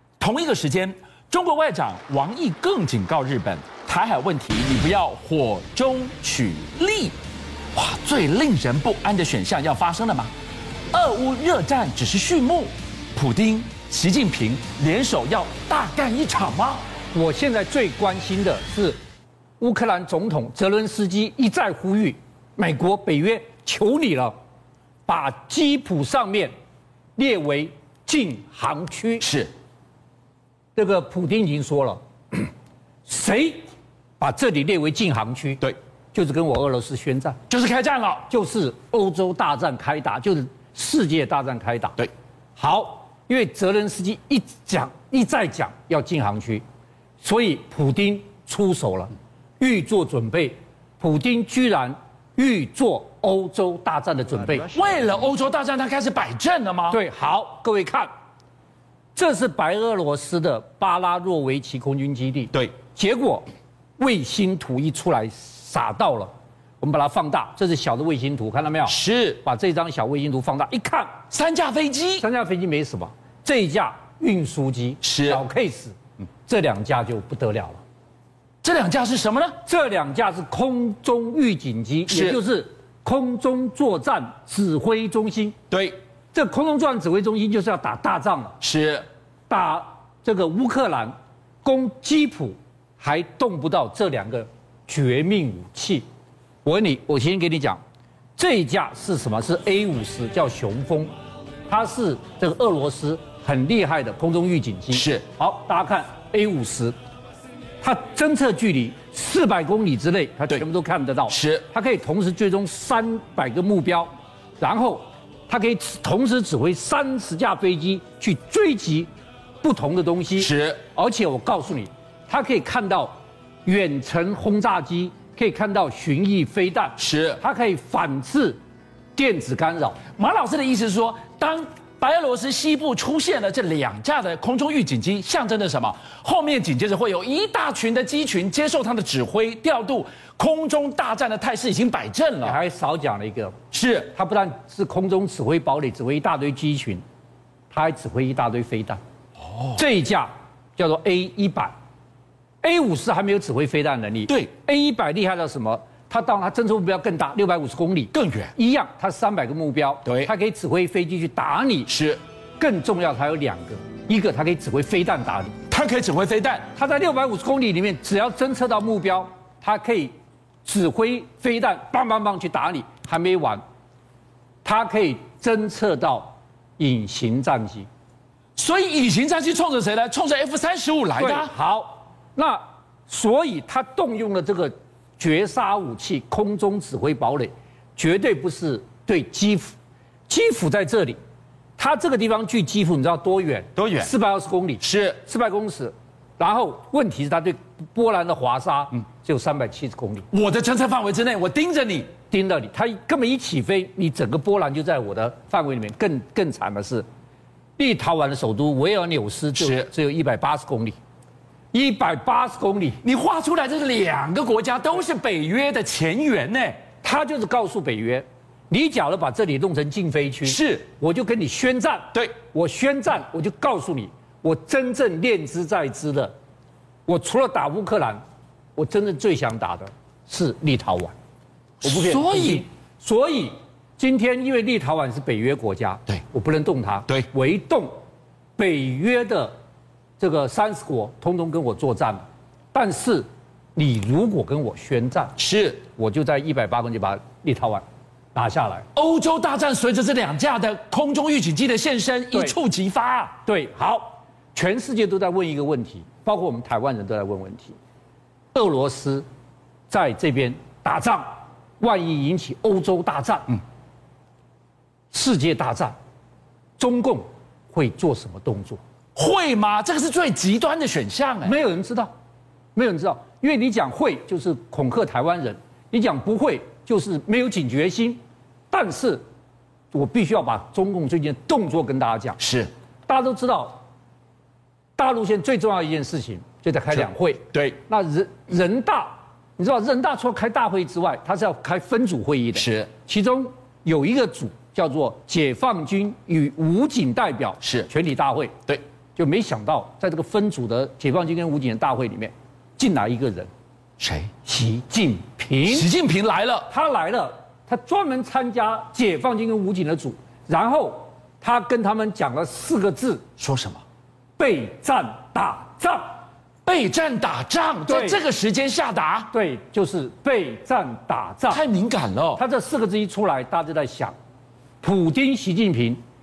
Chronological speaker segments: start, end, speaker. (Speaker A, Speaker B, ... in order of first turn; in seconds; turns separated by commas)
Speaker A: 0.2-7.2, Speaker A: 7.7-10.3, Speaker A: 10.9-16.8, Speaker B: 17.1-19.0, Speaker B: 19.6-24.4, Speaker B: 25.1-26.5, Speaker B: 27.2-29.3, Speaker A: 29.2-29.5, Speaker B: 30.8-32.5, Speaker B: 33.0-33.6, Speaker B: 34.2-37.4, Speaker A: 37.5-38.3, Speaker B: 38.3-42.0, Speaker B: 42.6-46.6, Speaker B: 47.2-54.7, Speaker A: 54.7-57.0, Speaker B: 56.9-58.1, Speaker B: 59.1-63.4, Speaker B: 64.0-71.2, Speaker A: 68.9-69.4, Speaker A: 71.3-72.2, Speaker B: 72.2-77.8, Speaker A: 75.0-75.4, Speaker A: 78.6-79.5, Speaker B: 79.6-85.6, Speaker A: 82.1-82.4, Speaker A: 85.7-86.0, Speaker B: 86.3-88.6, Speaker A: 88.6-89.0, Speaker B: 89.5-96.0, Speaker B: 96.6-97.8, Speaker B: 98.4-101.1, Speaker B: 101.7-106.9, Speaker A: 104.9-105.2, Speaker B: 107.8-119.1, Speaker A: 111.3-111.7, Speaker B: 119.6-128.6, Speaker A: 120.4-120.8, Speaker A: 127.0-127.4, Speaker B: 129.1-130.0, Speaker A: 130.1-142.6, Speaker B: 142.4-143.6, Speaker A: 143.7-144.1, Speaker B: 144.1-147.0, Speaker B: 147.7-149.0, Speaker B: 149.7-151.7, Speaker B: 152.6-161.9, Speaker A: 158.1-158.5, Speaker A: 160.0-160.3, Speaker A: 161.9-162.2, Speaker B: 162.6-165.6, Speaker A: 165.7-166.7, Speaker B: 166.7-170.1, Speaker B: 170.6-173.6, Speaker B: 174.6-177.9, Speaker A: 178.6-181.5, Speaker B: 181.2-189.7, Speaker B: 190.3-191.2, Speaker B: 191.8-200.3, Speaker A: 193.8-194.1, Speaker A: 194.8-195.2, Speaker A: 200.3-202.1, Speaker B: 202.3-207.0, Speaker B: 207.8-210.9, Speaker A: 209.6-209.9, Speaker B: 211.7-213.0, Speaker A: 213.0-216.8, Speaker B: 217.0-226.3, Speaker A: 220.4-220.9, Speaker B: 227.1-228.2, Speaker B: 228.8-231.1, Speaker A: 231.8-232.6, Speaker B: 231.8-238.0, Speaker B: 238.6-239.5, Speaker B: 240.2-245.3, Speaker A: 245.4-245.8, Speaker B: 245.9-248.9, Speaker A: 248.9-253.4, Speaker B: 253.4-257.8, Speaker B: 258.5-259.2, Speaker B: 259.9-263.6, Speaker B: 265.1-265.9, Speaker B: 266.8-268.8, Speaker A: 269.1-271.5, Speaker B: 271.4-272.1, Speaker B: 272.7-278.2, Speaker B: 278.7-279.2, Speaker B: 279.9-282.4, Speaker A: 282.4-282.7, Speaker B: 283.1-283.8, Speaker B: 285.0-298.6, Speaker A: 286.9-287.8, Speaker A: 292.5-292.9, Speaker A: 297.6-297.9, Speaker B: 299.1-303.5, Speaker A: 304.0-304.3, Speaker B: 304.4-305.9, Speaker A: 305.6-306.7, Speaker B: 306.7-313.2, Speaker A: 313.4-313.8, Speaker B: 314.4-316.2, Speaker A: 316.6-319.3, Speaker B: 317.9-318.2, Speaker B: 319.3-321.6, Speaker A: 321.5-322.4, Speaker B: 322.4-324.1, Speaker B: 324.8-326.0